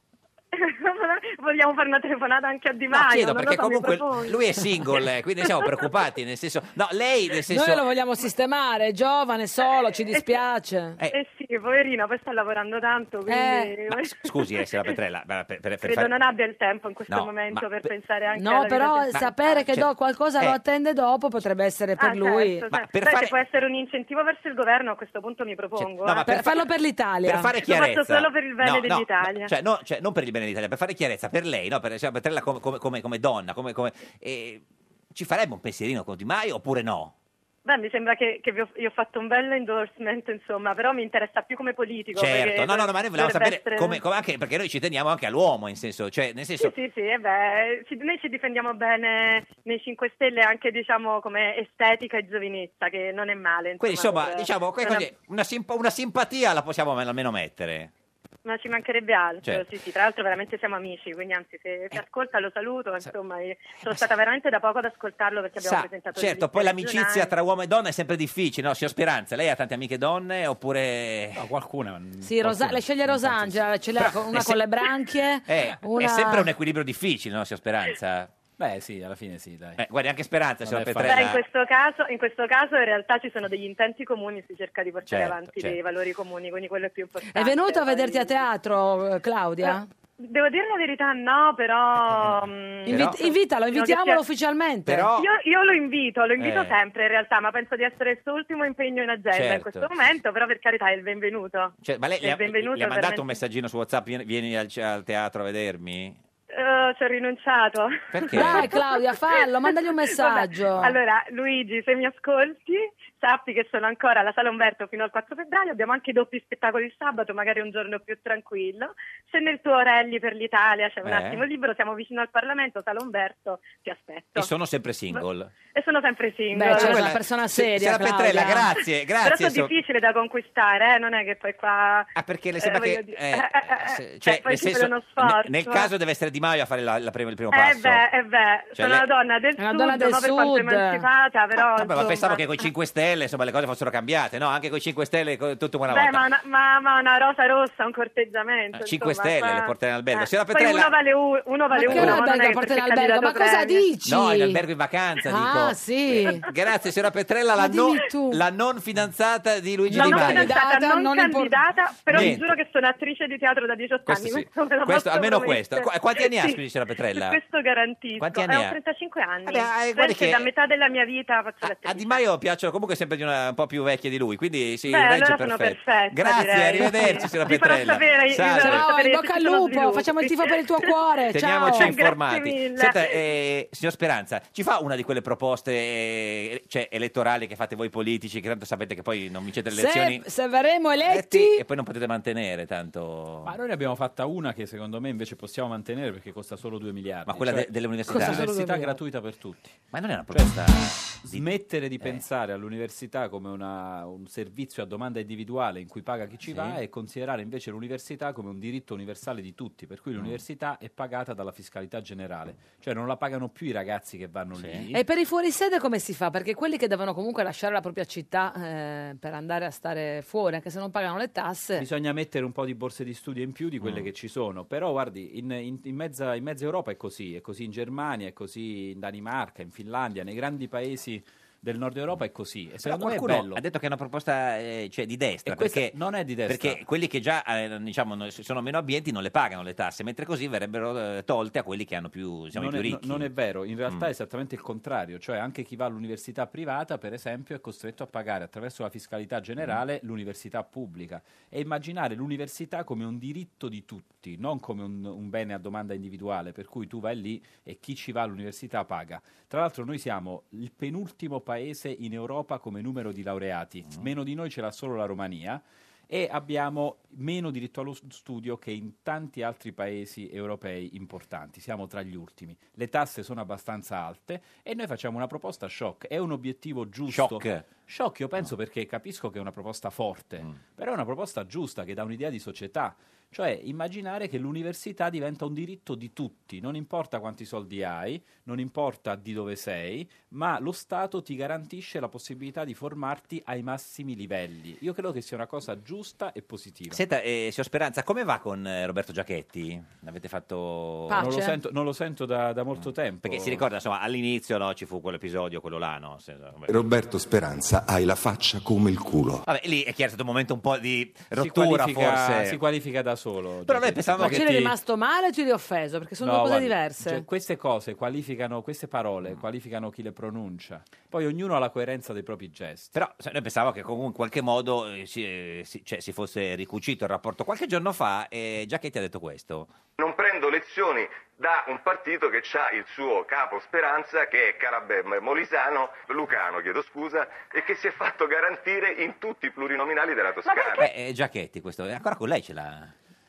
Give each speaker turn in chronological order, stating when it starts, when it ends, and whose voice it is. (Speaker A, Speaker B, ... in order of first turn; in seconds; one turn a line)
Speaker A: 0.5-4.4
Speaker B: 2.9-7.8
Speaker C: 7.5-11.0
Speaker A: 10.1-10.4
Speaker A: 11.1-14.3
Speaker C: 13.3-13.7
Speaker B: 13.9-16.1
Speaker A: 15.8-19.6
Speaker B: 17.1-17.9
Speaker C: 18.4-22.6
Speaker B: 19.1-20.6
Speaker A: 22.0-26.4
Speaker B: 22.7-23.3
Speaker B: 25.8-26.7
Speaker C: 26.2-27.5
Speaker B: 27.2-37.1
Speaker A: 27.6-29.5
Speaker A: 37.6-44.0
Speaker B: 42.1-46.7
Speaker A: 46.6-55.1
Speaker B: 53.8-57.9
Speaker A: 58.4-67.3
Speaker B: 65.6-71.5
Speaker D: 71.4-73.7
Speaker C: 72.2-76.5
Speaker B: 74.0-74.6
Speaker B: 75.5-78.3
Speaker D: 78.6-79.8
Speaker B: 79.8-81.4
Speaker D: 80.6-81.2
Speaker A: 81.0-88.5
Speaker B: 85.1-85.8
Speaker C: 87.3-89.9
Speaker A: 89.6-94.2
Speaker B: 92.0-93.2
Speaker C: 92.9-95.1
Speaker B: 94.8-95.3
Speaker A: 95.1-103.2
Speaker B: 96.4-96.8
Speaker B: 99.3-99.9
Speaker B: 101.8-106.2
Speaker A: 106.5-124.5
Speaker B: 108.1-108.7
Speaker C: 108.3-111.0
Speaker B: 121.0-121.5
Speaker B: 124.3-125.5
Speaker A: 125.1-127.1
Speaker C: 126.5-128.7
Speaker B: 126.7-129.7
Speaker A: 129.2-135.9
Speaker B: 132.1-138.0
Speaker A: 137.5-142.5
Speaker B: 138.7-139.1
Speaker C: 139.6-141.0
Speaker B: 141.6-146.3
Speaker A: 145.9-153.9
Speaker B: 148.7-150.9
Speaker C: 151.7-154.6
Speaker B: 151.8-152.2
Speaker B: 154.0-160.6
Speaker C: 155.3-156.4
Speaker C: 157.6-158.4
Speaker C: 159.9-161.6
Speaker A: 159.9-166.6
Speaker B: 162.1-162.5
Speaker B: 164.1-167.4
Speaker A: 167.1-172.2
Speaker B: 168.2-168.8
Speaker B: 169.4-170.5
Speaker B: 171.6-178.8
Speaker A: 174.9-180.9
Speaker C: 178.5-181.9
Speaker B: 181.3-190.2
Speaker A: 181.7-183.1
Speaker C: 189.7-191.6
Speaker B: 191.1-193.5
Speaker D: 193.4-199.8
Speaker B: 197.3-198.5
Speaker C: 198.1-199.0
Speaker B: 199.9-202.2
Speaker D: 200.3-215.0
Speaker B: 206.4-206.8
Speaker B: 214.6-214.9
Speaker C: 214.9-221.8
Speaker D: 221.8-233.6
Speaker B: 223.8-224.1
Speaker B: 232.8-243.3
Speaker D: 235.4-236.8
Speaker D: 242.5-297.0
Speaker B: 277.1-277.7
Speaker B: 296.9-301.4
Speaker C: 301.1-301.6
Speaker D: 301.2-303.6
Speaker B: 303.2-306.9
Speaker E: 306.7-309.4
Speaker B: 309.4-312.6
Speaker D: 311.3-314.7
Speaker B: 313.6-314.7
Speaker C: 314.2-317.2
Speaker D: 316.2-322.9
Speaker B: 322.9-329.7
Speaker F: 330.0-340.8
Speaker A: 340.4-340.9
Speaker B: 340.8-342.9